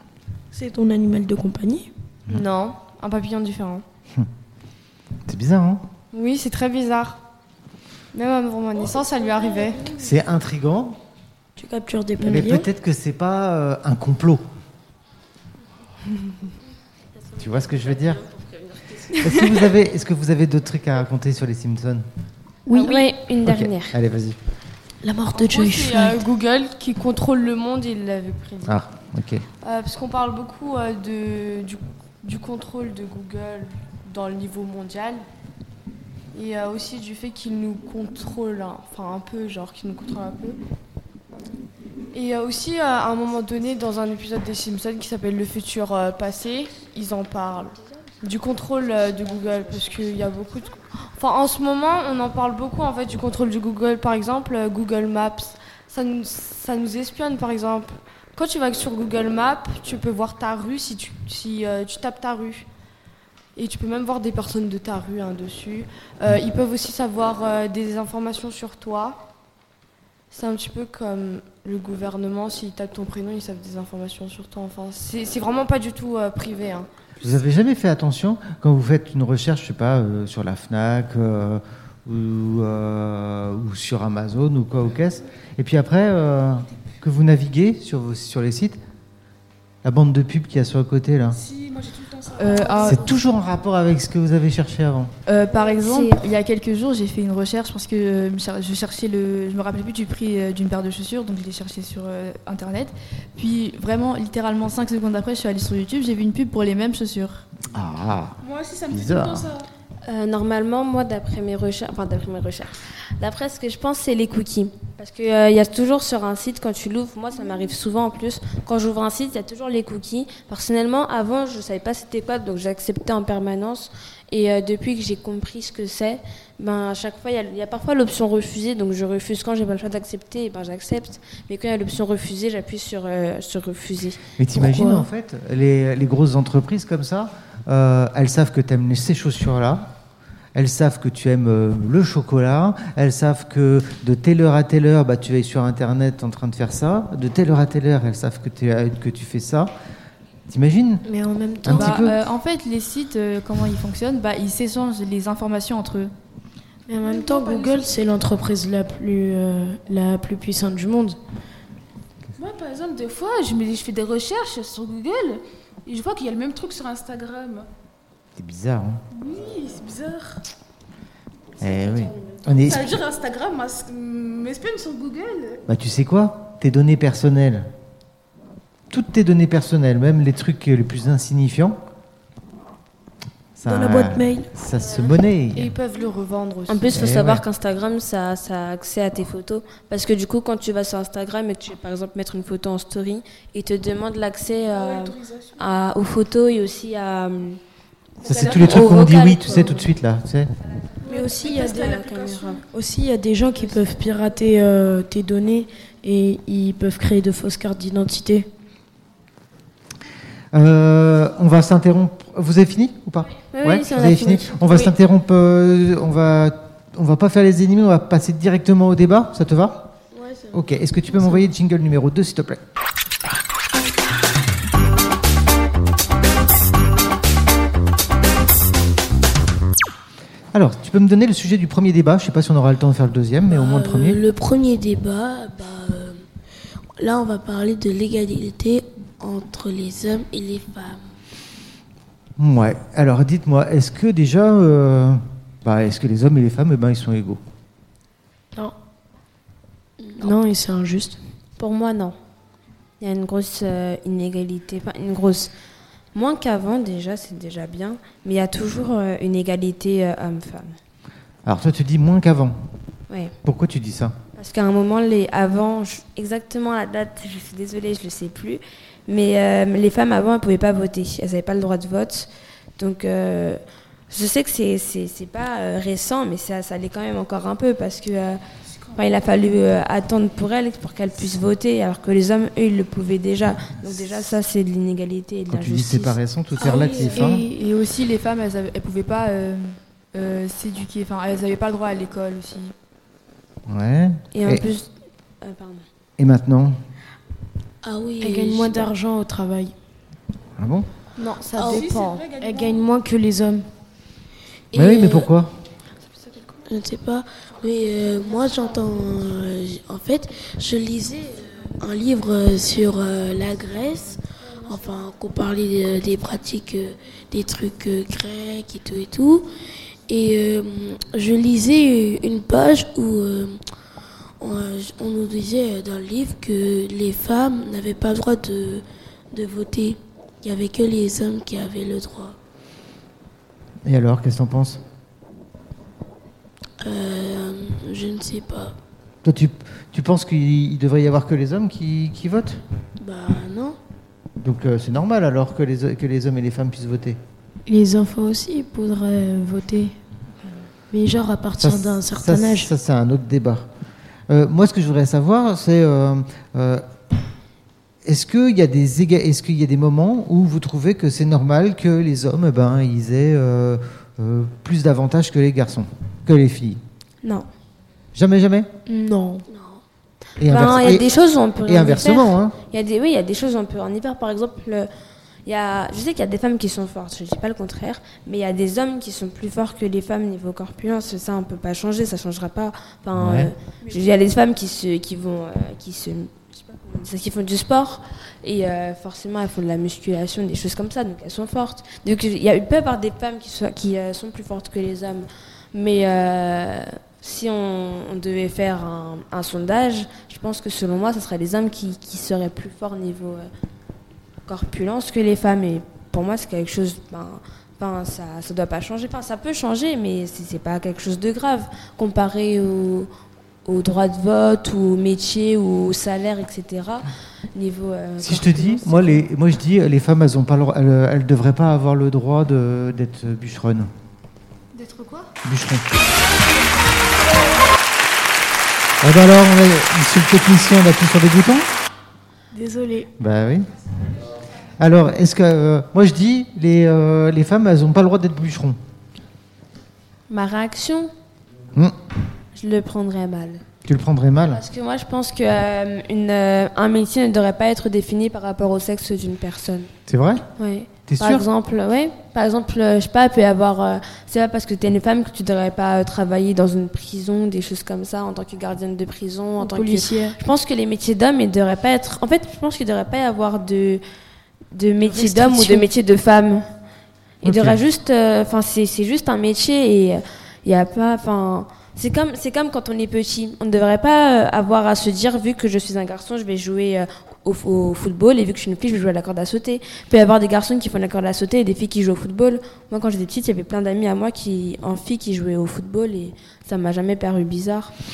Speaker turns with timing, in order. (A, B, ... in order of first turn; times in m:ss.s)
0:00.5-0:01.9 A
0:02.3-0:03.8 B
0:05.2-0:05.8 C
0:06.1-0:07.2 B
0:08.1-0:09.9 B
0:09.9-0:11.0 C
0:11.6-0:12.7 A
0:12.2-0:14.4 C
0:17.4-0:18.3 C
0:19.0-0:22.0 C
0:22.6-0:22.9 A
0:22.7-0:24.0 D
0:23.4-0:24.4 C
0:25.0-0:26.2 A
0:25.3-0:28.8 B
0:28.6-0:29.4 C
0:29.6-0:35.2 B
0:36.3-0:40.6 B
0:42.1-1:02.7 B
1:03.6-1:09.2 B
1:10.3-1:16.9 B
1:17.2-1:28.8 C
1:29.8-1:31.4 C
1:31.3-1:33.0 E
1:32.4-1:33.1 F
1:32.8-1:35.1 C
1:35.2-1:47.4 F
1:35.8-1:36.2 D
1:47.7-1:49.5 C
1:48.4-1:49.7 E
1:50.0-2:14.2 D
2:14.4-2:19.9 C
2:14.5-2:15.1 A
2:20.5-2:29.7 C
2:30.5-2:31.0 C
2:31.0-2:32.1 A
2:31.6-2:32.2 C
2:31.7-2:36.1 F
2:36.9-2:41.2 A
2:37.0-2:37.9 E
2:42.4-2:47.7 E
2:48.4-2:49.0 C
2:49.1-2:50.4 E
2:51.6-2:52.9 C
2:51.7-2:55.6 E
2:55.7-2:57.7 C
2:58.9-3:01.8 C
3:03.6-3:05.7 C
3:03.6-3:04.5 A
3:05.5-3:07.0 B
3:06.7-3:17.6 D
3:06.9-3:07.4 C
3:14.6-3:15.6 E
3:18.2-3:19.9 D
3:18.2-3:20.5 C
3:18.4-3:19.0 E
3:21.0-3:22.0 A
3:21.0-3:22.6 D
3:21.1-3:22.6 E
3:22.7-3:28.5 A
3:30.5-3:39.9 C
3:33.5-3:34.9 D
3:40.1-3:40.6 G
3:40.5-3:42.6 C
3:50.5-3:54.2 C
3:53.5-3:56.2 G
3:57.0-4:01.0 G
4:02.4-4:07.4 C
4:10.0-4:10.3 G
4:10.2-4:11.2 A
4:11.6-4:12.1 D
4:13.0-4:15.5 D
4:16.1-4:20.8 D
4:21.4-4:22.6 C
4:23.1-4:23.3 D
4:23.4-4:24.2 C
4:24.4-4:38.4 D
4:38.9-4:46.2 D
4:45.5-4:47.4 C
4:46.6-4:47.6 A
4:46.6-4:47.2 G
4:47.3-4:52.7 F
4:53.7-4:54.7 C
4:54.3-4:54.9 D
4:55.4-4:55.8 D
4:56.2-4:56.8 C
4:57.8-4:58.9 G
4:58.2-4:59.7 A
5:00.6-5:00.9 C
5:01.2-5:02.2 B
5:01.5-5:01.8 G
5:01.6-5:02.8 E
5:02.4-5:03.7 A
5:04.7-5:05.3 G
5:04.7-5:05.6 C
5:06.6-5:19.5 G
5:20.1-5:23.6 G
5:24.4-5:32.4 G
5:33.8-5:34.8 C
5:36.8-5:38.7 G
5:39.2-5:42.6 C
5:43.0-5:43.8 G
5:44.4-5:47.2 C
5:47.7-5:50.0 A
5:50.9-5:52.7 A
5:51.6-5:53.7 C
5:54.3-5:56.9 C
5:58.0-6:06.8 C
6:07.2-6:07.5 D
6:08.1-6:08.7 C
6:08.9-6:09.4 A
6:09.5-6:09.8 G
6:10.4-6:12.6 C
6:10.5-6:14.9 D
6:15.4-6:43.5 D
6:23.2-6:23.5 C
6:44.4-6:53.1 D
6:53.6-6:59.2 D
6:58.2-7:03.9 C
7:04.8-7:05.2 E
7:05.4-7:05.8 C
7:09.0-7:11.7 C
7:12.5-7:13.1 A
7:13.2-7:13.7 C
7:14.8-7:18.8 C
7:20.3-7:21.1 D
7:22.5-7:23.6 D
7:23.8-7:24.6 C
7:24.5-7:29.9 D
7:30.1-7:30.4 C
7:30.6-7:44.0 D
7:31.1-7:31.4 C
7:39.6-7:40.4 A
7:44.7-7:46.6 D
7:45.0-7:45.8 A
7:47.4-7:47.8 C
7:47.4-8:07.9 D